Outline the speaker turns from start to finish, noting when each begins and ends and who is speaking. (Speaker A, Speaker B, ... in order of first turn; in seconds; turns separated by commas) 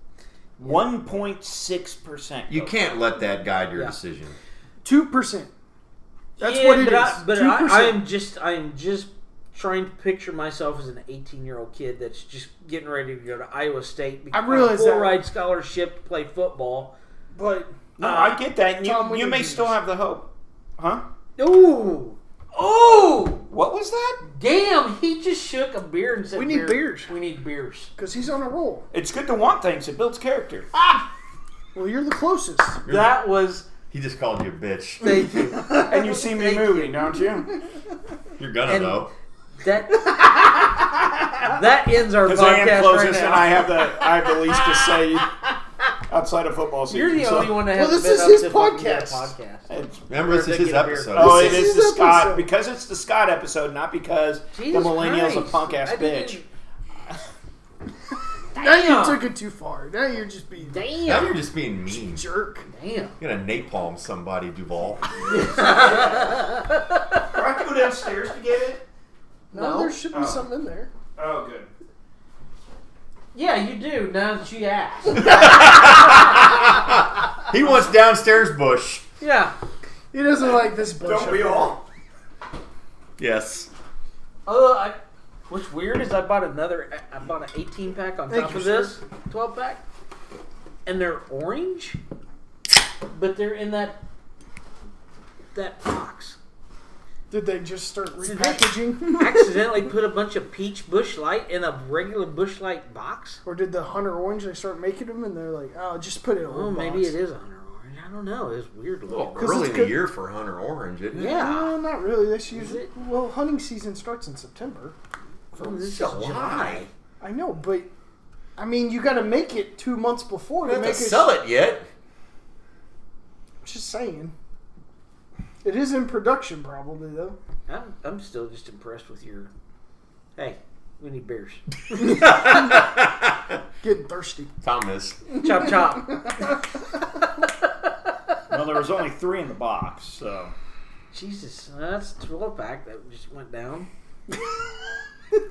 Speaker A: 0.6-2.7, Speaker B: 2.5-4.4, Speaker C: 4.8-5.5, Speaker C: 6.4-8.0, Speaker D: 6.4-16.9, Speaker C: 14.3-15.2, Speaker C: 17.3-17.9, Speaker A: 18.0-21.0, Speaker D: 18.0-18.4, Speaker C: 18.8-19.8, Speaker D: 21.4-23.5, Speaker A: 23.5-24.2, Speaker D: 24.2-27.9, Speaker C: 26.3-27.1, Speaker C: 27.9-28.9, Speaker A: 28.9-30.7, Speaker C: 31.7-32.8, Speaker B: 32.9-33.1, Speaker D: 32.9-33.7, Speaker B: 33.9-35.0, Speaker D: 35.0-36.9, Speaker A: 35.7-37.5, Speaker B: 38.4-39.1, Speaker D: 38.7-39.1, Speaker D: 39.6-45.2, Speaker A: 42.2-45.3, Speaker A: 46.1-47.6, Speaker D: 46.9-51.3, Speaker C: 47.7-49.3, Speaker A: 49.7-50.1, Speaker B: 50.1-51.7, Speaker A: 51.1-56.4, Speaker C: 51.2-52.5, Speaker D: 54.5-56.4, Speaker D: 58.5-59.2, Speaker C: 58.5-60.8, Speaker D: 60.7-61.4, Speaker B: 61.0-62.2, Speaker C: 61.9-62.7, Speaker D: 62.7-63.1, Speaker B: 63.2-65.4, Speaker D: 65.2-67.3, Speaker A: 65.6-66.2, Speaker A: 67.2-68.8, Speaker C: 69.5-70.9, Speaker D: 69.5-70.0, Speaker A: 70.1-70.4, Speaker A: 71.2-71.7, Speaker D: 73.3-76.7, Speaker B: 75.2-79.0, Speaker D: 79.2-79.5, Speaker C: 80.1-81.8, Speaker A: 80.9-81.8, Speaker B: 83.2-83.7, Speaker D: 84.5-89.8, Speaker C: 88.3-89.0, Speaker D: 90.8-92.0, Speaker D: 93.1-94.0, Speaker D: 95.5-96.4, Speaker C: 97.3-99.7, Speaker D: 98.2-103.4, Speaker C: 103.4-107.2, Speaker D: 106.5-109.6, Speaker B: 109.1-111.4, Speaker C: 109.3-110.0, Speaker D: 111.1-111.7, Speaker C: 111.3-115.0, Speaker D: 112.5-112.9, Speaker D: 115.5-116.9, Speaker B: 115.6-116.8, Speaker C: 117.2-117.9, Speaker C: 118.6-121.3, Speaker B: 120.6-121.9, Speaker C: 123.6-124.3, Speaker C: 125.6-127.4, Speaker D: 127.7-129.5, Speaker D: 130.3-131.6, Speaker C: 131.9-132.8, Speaker B: 132.0-133.6, Speaker C: 133.8-134.5, Speaker B: 134.6-135.2, Speaker C: 135.3-136.7, Speaker D: 135.4-136.5, Speaker D: 137.8-138.1, Speaker A: 138.5-140.5, Speaker D: 141.1-143.9, Speaker C: 144.3-144.6